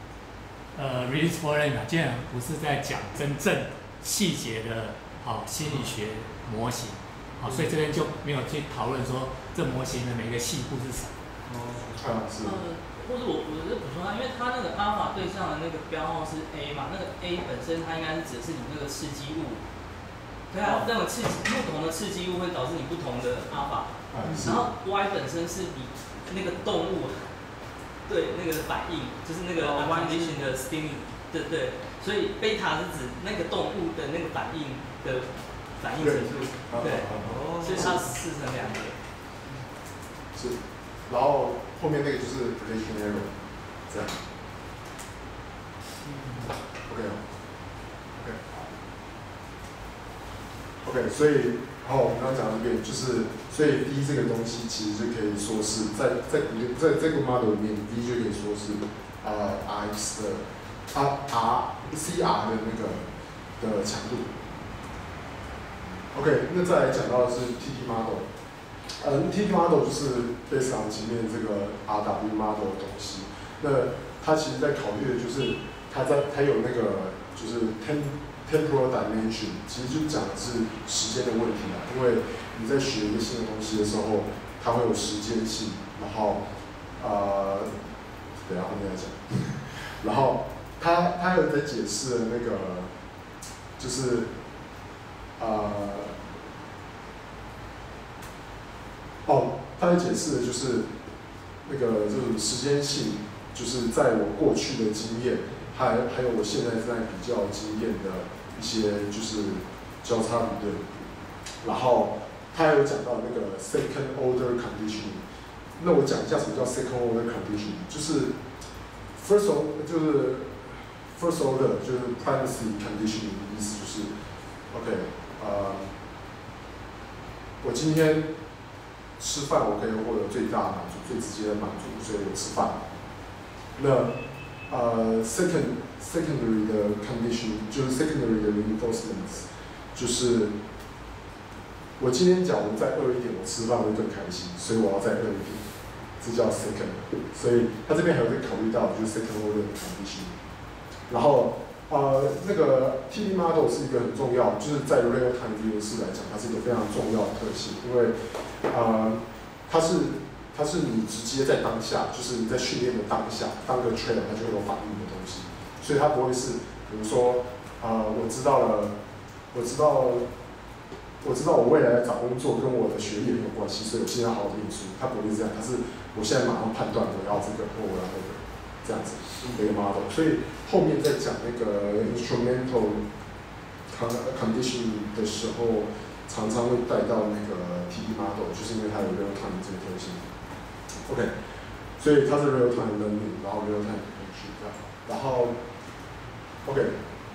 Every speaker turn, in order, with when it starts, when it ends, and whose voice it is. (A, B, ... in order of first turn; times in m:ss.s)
0:00.7-0:11.1 A
0:05.6-0:05.9 B
0:07.4-0:07.8 B
0:11.4-0:11.9 B
0:11.8-0:12.6 C
0:12.4-0:19.6 D
0:20.5-0:27.3 D
0:20.6-0:20.9 B
0:24.1-0:24.7 C
0:28.0-0:39.0 D
0:29.6-0:30.5 B
0:36.0-0:38.0 C
0:37.2-0:38.0 B
0:40.3-0:43.3 C
0:43.9-0:44.2 C
0:46.0-0:46.6 B
0:46.9-0:47.2 C
0:48.2-0:48.4 C
0:50.8-1:03.0 C
1:03.6-1:04.3 C
1:06.1-1:08.3 C
1:09.0-1:26.4 C
1:27.0-1:27.7 C
1:28.4-1:32.9 C
1:33.8-1:34.3 C
1:35.4-1:36.2 C
1:39.2-1:40.9 C
1:41.6-1:50.9 C
1:51.6-1:55.2 C
1:55.8-1:58.3 C
1:59.2-2:04.1 C
2:04.7-2:05.9 C
2:07.6-2:08.3 C
2:09.2-2:12.8 C
2:13.8-2:14.1 C
2:14.7-2:20.5 C
2:22.0-2:25.7 C
2:26.2-2:30.3 C
2:31.1-2:38.2 C
2:38.7-2:48.9 C
2:49.5-2:50.3 C
2:51.2-3:03.0 C
3:03.9-3:10.2 C
3:11.1-3:11.3 C
3:12.0-3:15.6 C
3:16.6-3:16.9 C